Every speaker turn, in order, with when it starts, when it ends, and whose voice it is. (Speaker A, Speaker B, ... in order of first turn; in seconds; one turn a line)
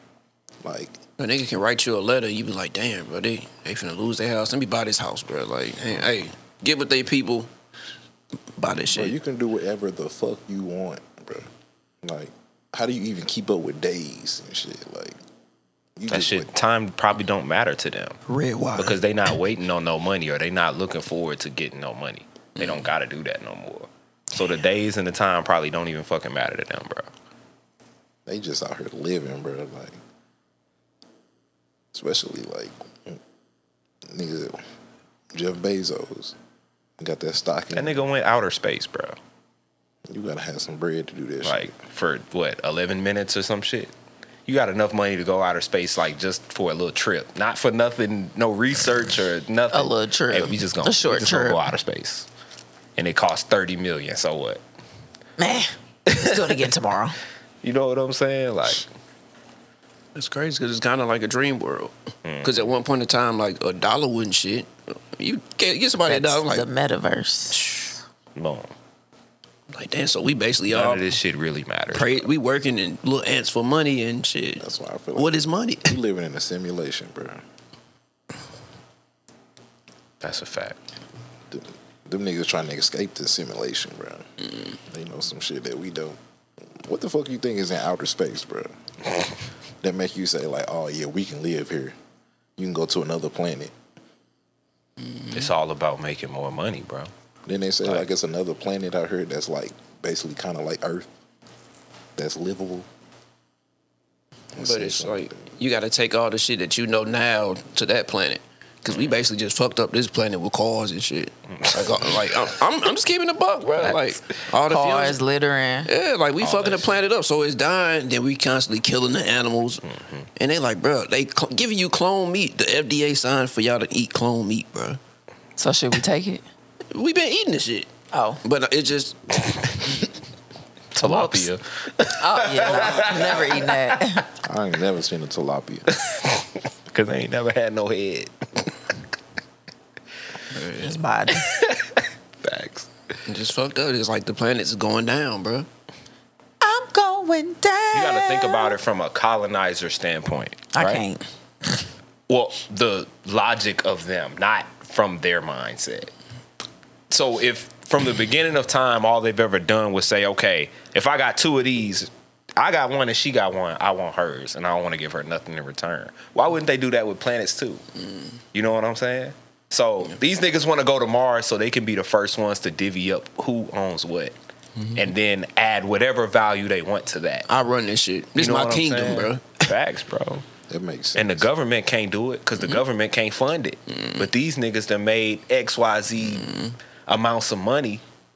Speaker A: 0.6-1.0
Speaker B: 1.2-7.5
Speaker B: 8.5-9.1
Speaker A: 8.9-11.5
Speaker A: 12.0-15.2
Speaker A: 15.9-16.5
Speaker C: 16.1-18.2
Speaker B: 18.3-19.0
Speaker C: 18.8-27.1
Speaker A: 28.2-30.0
Speaker A: 31.9-33.2
Speaker A: 34.1-34.6
Speaker A: 35.3-36.4
Speaker A: 37.0-38.0
Speaker C: 37.7-39.2
Speaker A: 40.1-41.7
Speaker C: 41.4-43.9
Speaker C: 44.5-52.3
Speaker D: 49.7-51.6
Speaker C: 53.0-54.6
Speaker D: 55.4-57.2
Speaker C: 56.1-56.5
Speaker C: 57.6-58.9
Speaker B: 60.1-66.7
Speaker C: 62.2-62.7
Speaker D: 66.1-67.6
Speaker B: 67.5-67.9
Speaker C: 68.3-68.7
Speaker B: 69.7-71.2
Speaker C: 70.7-72.3
Speaker B: 71.9-76.0
Speaker A: 74.6-77.4
Speaker C: 80.2-80.8
Speaker A: 81.5-84.2
Speaker A: 84.9-86.2
Speaker A: 86.8-88.7
Speaker A: 89.8-91.9
Speaker A: 92.6-93.7
Speaker C: 95.3-97.1
Speaker A: 97.5-101.1
Speaker C: 97.8-98.1
Speaker A: 102.2-102.9
Speaker A: 104.5-105.5
Speaker B: 104.5-115.2
Speaker C: 111.5-112.3
Speaker C: 113.8-114.2
Speaker D: 114.7-115.9
Speaker B: 115.8-119.8
Speaker C: 116.4-117.0
Speaker C: 119.8-120.3
Speaker B: 120.4-125.0
Speaker D: 125.6-126.4
Speaker B: 126.9-127.9
Speaker D: 128.1-128.4
Speaker B: 128.4-130.1
Speaker C: 130.9-133.7
Speaker D: 131.0-131.5
Speaker D: 132.2-134.3
Speaker A: 134.4-135.9
Speaker C: 135.9-138.7
Speaker B: 140.5-141.0
Speaker D: 140.8-141.5
Speaker C: 141.3-142.9
Speaker B: 143.3-145.7
Speaker D: 146.6-148.8
Speaker C: 147.9-151.0
Speaker D: 150.7-151.8
Speaker C: 152.3-156.1
Speaker C: 157.1-167.8
Speaker C: 168.5-174.3
Speaker C: 174.9-177.5
Speaker B: 177.5-179.6
Speaker C: 178.3-180.4
Speaker A: 180.7-181.5
Speaker C: 181.1-186.5
Speaker B: 186.4-186.7
Speaker C: 187.1-188.0